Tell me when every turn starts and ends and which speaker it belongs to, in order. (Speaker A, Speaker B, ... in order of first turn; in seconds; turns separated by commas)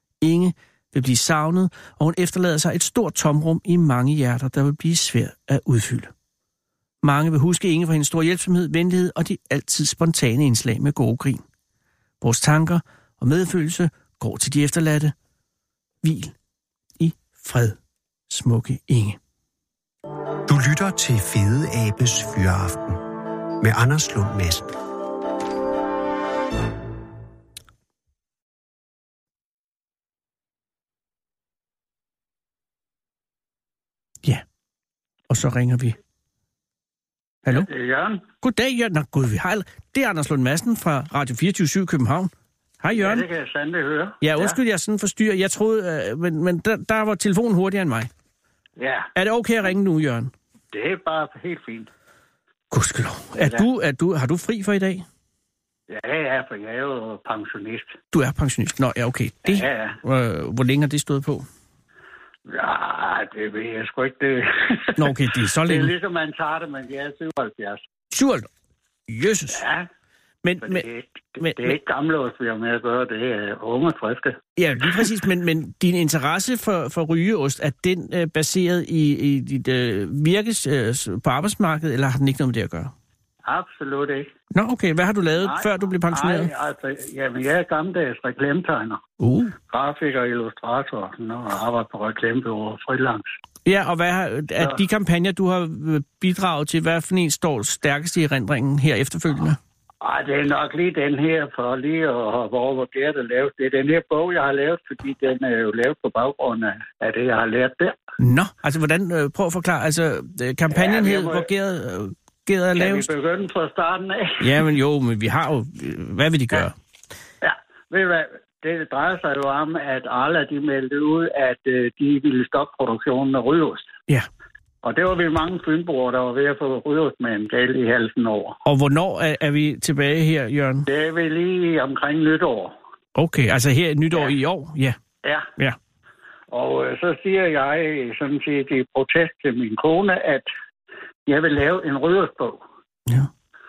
Speaker A: 0.2-6.1, Speaker A: 7.0-11.4, Speaker A: 12.2-15.1, Speaker A: 16.0-16.3, Speaker A: 17.0-17.8, Speaker A: 18.3-19.2, Speaker B: 20.5-23.0, Speaker B: 23.6-24.8, Speaker A: 35.3-36.0, Speaker C: 37.5-38.2, Speaker A: 38.4-42.3, Speaker A: 42.8-43.2, Speaker C: 42.9-44.6, Speaker A: 44.2-48.1, Speaker C: 48.8-49.1, Speaker A: 49.2-50.3, Speaker C: 50.7-51.9, Speaker A: 52.7-55.0, Speaker C: 53.4-53.6, Speaker C: 55.9-58.0, Speaker A: 58.1-61.5, Speaker C: 59.5-60.0, Speaker C: 62.5-65.1, Speaker A: 65.0-65.9, Speaker C: 65.7-67.8, Speaker A: 68.1-68.5, Speaker A: 69.1-69.6, Speaker C: 69.5-69.9, Speaker A: 70.4-70.8, Speaker C: 70.6-74.4, Speaker A: 71.4-71.8, Speaker A: 74.6-82.9, Speaker C: 83.5-84.3, Speaker A: 84.5-86.5, Speaker C: 85.4-89.0, Speaker A: 89.2-89.5, Speaker C: 89.7-93.3, Speaker A: 93.7-99.6, Speaker C: 100.0-108.0, Speaker A: 108.2-113.1, Speaker C: 110.7-111.5, Speaker C: 112.8-114.5, Speaker A: 114.4-116.7, Speaker C: 117.4-123.9, Speaker C: 124.8-128.6, Speaker A: 128.7-130.9, Speaker C: 130.9-132.8, Speaker A: 133.2-135.0, Speaker C: 136.5-140.5, Speaker C: 141.2-142.6